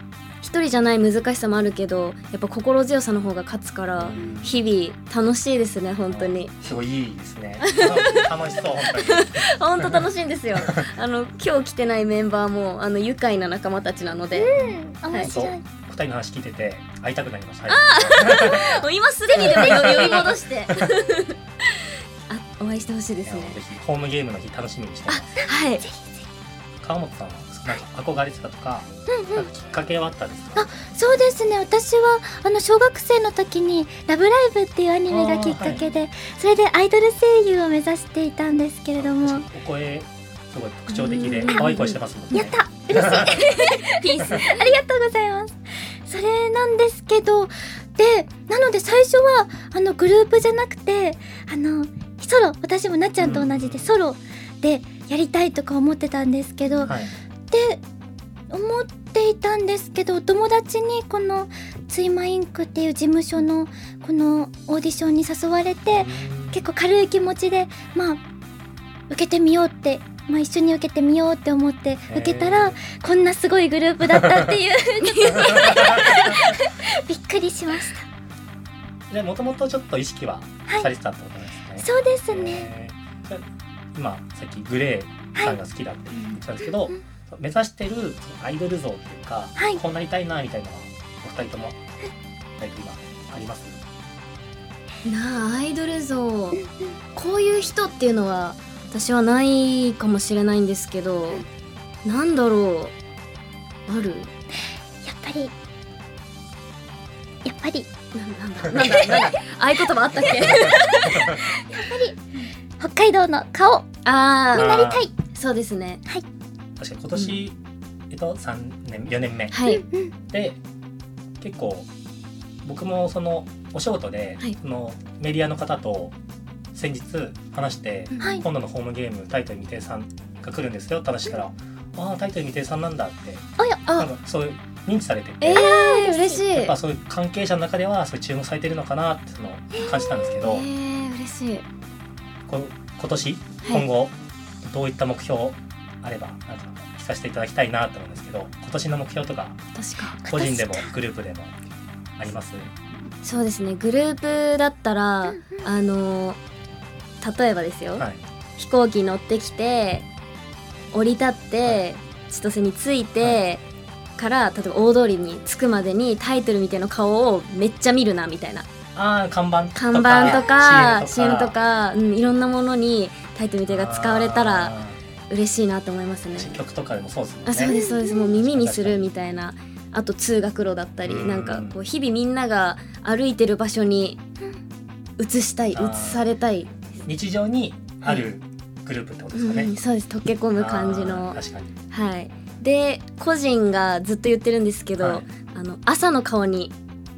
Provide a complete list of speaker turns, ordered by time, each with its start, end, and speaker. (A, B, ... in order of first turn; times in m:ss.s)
0:00.4-0:06.5 A
0:04.0-0:04.6 B
0:06.1-0:10.9 B
0:07.6-0:15.4 A
0:14.3-0:15.6 C
0:14.5-0:18.8 B
0:17.7-0:23.6 A
0:19.3-0:20.9 B
0:23.2-0:25.3 B
0:25.1-0:25.8 A
0:25.4-0:26.2 C
0:26.8-0:30.7 B
0:29.1-0:29.5 C
0:30.6-0:39.5 C
0:35.1-0:35.9 B
0:39.0-0:43.4 B
0:40.9-0:42.4 A
0:41.4-0:41.7 C
0:42.3-0:56.9 C
0:43.2-0:44.7 A
0:53.2-0:54.0 B
0:56.8-0:57.1 B
0:57.5-0:57.8 C
0:58.5-1:08.2 C
1:06.0-1:06.7 B
1:09.1-1:18.0 C
1:12.1-1:12.8 B
1:14.1-1:14.5 B
1:15.0-1:16.5 A
1:15.3-1:16.4 B
1:19.1-1:31.8 B
1:21.8-1:22.7 C
1:32.6-1:33.8 B
1:35.0-1:41.4 A
1:42.0-1:42.9 A
1:43.9-1:44.3 A
1:45.0-1:45.5 C
1:47.4-1:47.9 C
1:48.1-1:51.6 A
1:48.7-1:49.4 B
1:50.2-1:51.4 B
1:51.5-1:52.2 C
1:52.8-1:53.9 C
1:54.0-1:56.0 A
1:54.5-1:55.1 C
1:54.5-1:55.1 B
1:56.8-1:57.6 B
1:58.1-1:59.6 B
1:59.5-1:59.8 A
1:59.7-2:00.1 C
2:00.3-2:00.6 B
2:01.4-2:01.9 B
2:02.6-2:06.2 B
2:06.7-2:15.7 B
2:08.1-2:08.4 A
2:08.2-2:08.4 C
2:15.4-2:16.8 A
2:15.5-2:16.5 C
2:16.5-2:20.7 B
2:19.7-2:20.4 C
2:20.4-2:21.6 A
2:22.5-2:29.6 B
2:29.7-2:30.2 A
2:30.2-2:30.9 C
2:30.2-2:31.5 B
2:32.2-2:32.7 B
2:33.2-2:36.4 A
2:37.2-2:38.0 A
2:38.6-2:40.0 A
2:40.9-2:43.6 A
2:44.2-2:48.7 A
2:49.0-2:51.5 B
2:49.8-2:54.8 A
2:53.7-2:55.0 B
2:55.3-2:56.6 A
2:56.4-2:57.8 B
2:57.5-3:04.2 A
2:57.6-2:58.3 C
2:58.3-2:59.1 B
3:01.0-3:01.8 B
3:05.2-3:06.8 A
3:05.7-3:06.2 B
3:07.0-3:09.7 B
3:09.4-3:11.4 A
3:10.6-3:11.7 B
3:11.9-3:16.7 A
3:15.0-3:15.3 B